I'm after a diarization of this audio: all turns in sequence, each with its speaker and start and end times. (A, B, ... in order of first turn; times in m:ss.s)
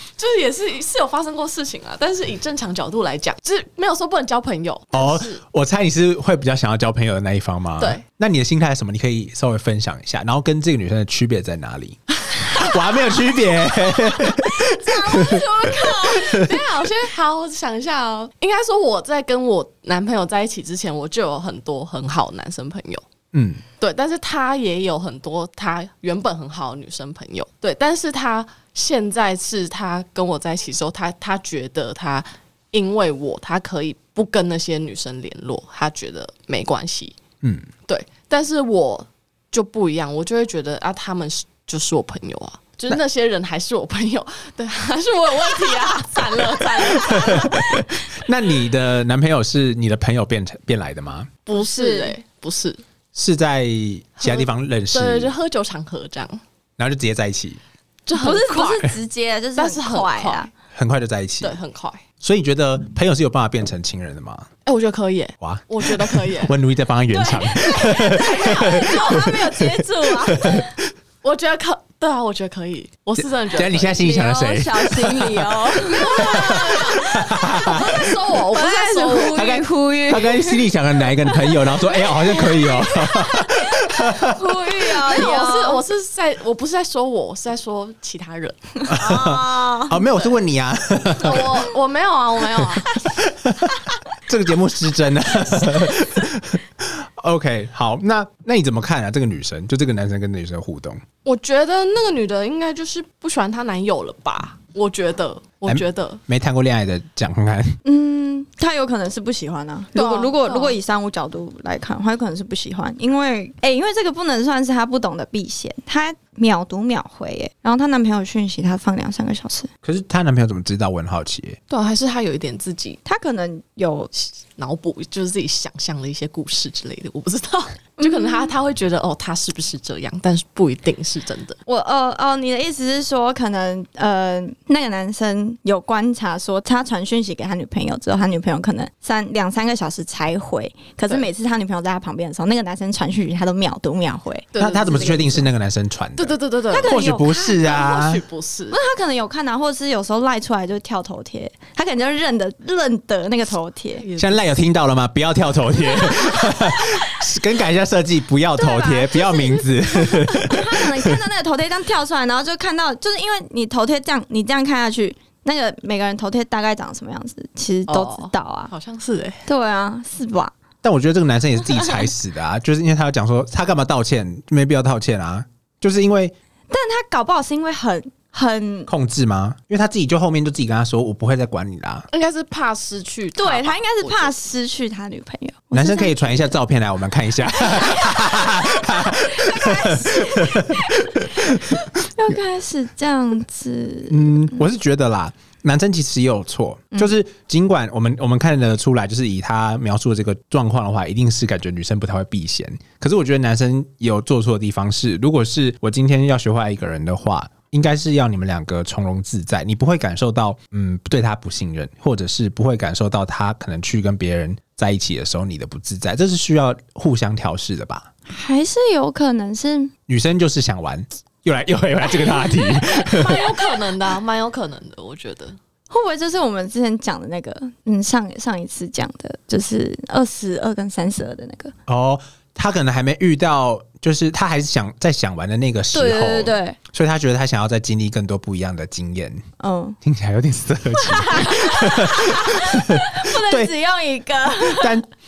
0:00.2-0:05.4 A
0:04.9-0:16.7 B
0:12.2-0:13.3 A
0:14.4-0:16.5 C
0:15.7-0:23.0 A
0:23.3-0:23.6 B
0:23.8-0:37.2 A
0:37.4-0:37.7 B
0:37.9-0:48.0 A
0:46.8-0:51.3 B
0:51.4-0:52.8 A
0:51.6-0:52.2 C
0:53.1-0:55.3 B
0:54.2-0:56.4 A
0:56.8-0:57.6 B
0:58.0-0:58.9 A
0:58.1-1:00.5 C
0:59.6-1:00.5 A
1:00.7-1:01.6 B
1:01.4-1:02.0 A
1:02.2-1:04.5 B
1:04.6-1:06.5 A
1:05.4-1:10.9 B
1:07.1-1:10.7 C
1:08.0-1:09.1 A
1:11.2-1:14.0 A
1:13.2-1:18.2 B
1:14.0-1:17.9 C
1:15.9-1:19.5 A
1:18.5-1:20.7 C
1:19.3-1:24.4 B
1:21.2-1:25.8 C
1:25.1-1:28.7 A
1:28.8-1:30.0 C
1:28.9-1:31.7 B
1:31.2-1:33.0 A
1:33.0-1:41.0 B
1:41.2-1:46.2 A
1:45.6-1:47.8 B
1:47.8-1:59.7 C
1:49.9-1:50.8 A
1:59.8-2:01.6 B
2:01.7-2:03.0 A
2:03.0-2:04.1 C
2:04.2-2:11.6 A
2:08.0-2:08.5 C
2:11.6-2:24.5 C
2:24.5-2:25.5 A
2:24.6-2:28.2 B
2:26.2-2:28.8 A
2:26.7-2:27.4 C
2:28.7-2:34.0 C
2:34.0-2:34.6 A
2:34.2-2:41.2 B
2:36.1-2:36.8 C
2:38.6-2:48.7 C
2:47.9-2:49.5 A
2:49.5-2:50.5 C
2:50.8-2:56.3 B
2:51.7-2:52.0 C
2:56.7-2:58.9 C
2:58.9-3:02.1 B
3:02.1-3:04.4 A
3:03.4-3:06.6 C
3:05.7-3:11.8 B
3:07.6-3:14.6 C
3:14.1-3:38.1 B
3:38.3-3:39.9 C
3:40.1-3:43.6 B
3:42.8-3:45.6 A
3:45.9-3:51.7 C
3:51.9-3:59.4 B
3:55.9-3:56.8 C
3:59.6-4:00.0 C
4:00.0-4:03.7 B
4:01.0-4:04.9 C
4:04.5-4:05.1 B